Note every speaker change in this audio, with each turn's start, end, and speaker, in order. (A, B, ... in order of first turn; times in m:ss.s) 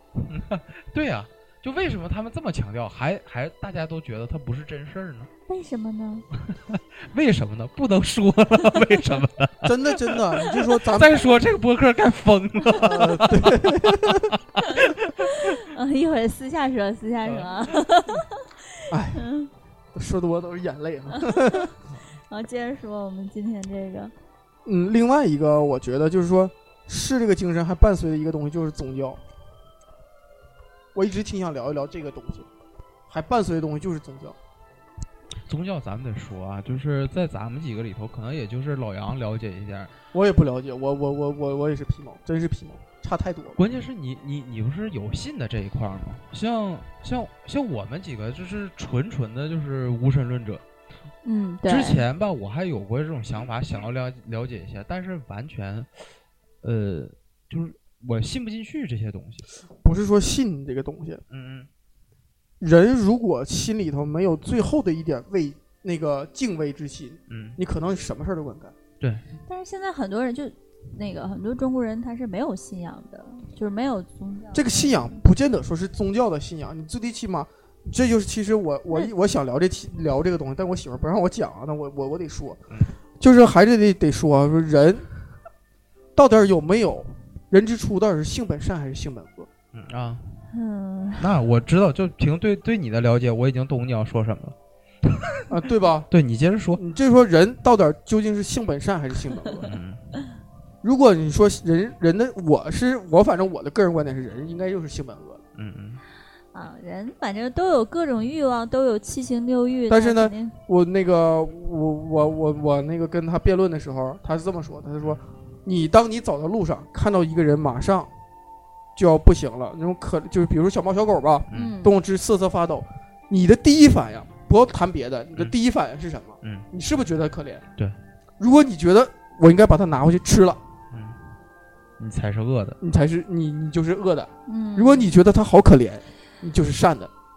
0:00.2-0:05.3 A
0:05.5-0:06.3 B
0:06.5-0:15.6 A
0:09.6-0:11.4 C
0:12.8-0:14.3 C
0:15.2-0:19.5 B
0:17.2-0:17.8 A
0:18.9-0:19.2 C
0:19.9-0:21.7 C
0:21.2-0:21.7 B
0:22.3-0:24.1 B
0:24.7-0:29.2 C
0:31.0-0:32.5 C
0:33.1-0:34.4 C
0:35.5-0:39.9 A
0:40.1-0:43.6 C
0:43.6-0:50.6 A
0:51.2-0:52.0 B
0:51.6-0:55.9 A
0:56.6-0:59.4 A
0:59.8-1:01.2 C
1:01.3-1:01.7 A
1:02.6-1:08.7 C
1:07.3-1:07.6 A
1:09.0-1:09.2 A
1:09.5-1:15.1 B
1:14.5-1:22.6 C
1:23.2-1:25.1 C
1:26.2-1:29.5 C
1:29.7-1:30.4 A
1:30.5-1:31.3 B
1:31.2-1:35.4 A
1:35.5-1:36.1 C
1:36.1-1:36.8 A
1:36.8-1:39.6 C
1:39.6-1:40.0 A
1:40.8-1:45.4 C
1:45.6-1:46.0 A
1:46.5-1:50.6 B
1:49.9-1:58.1 C
1:59.0-2:07.6 C
2:01.5-2:01.8 A
2:01.5-2:02.0 B
2:08.4-2:10.6 C
2:10.9-2:11.2 A
2:12.0-2:12.8 A
2:12.8-2:17.1 C
2:14.5-2:15.1 B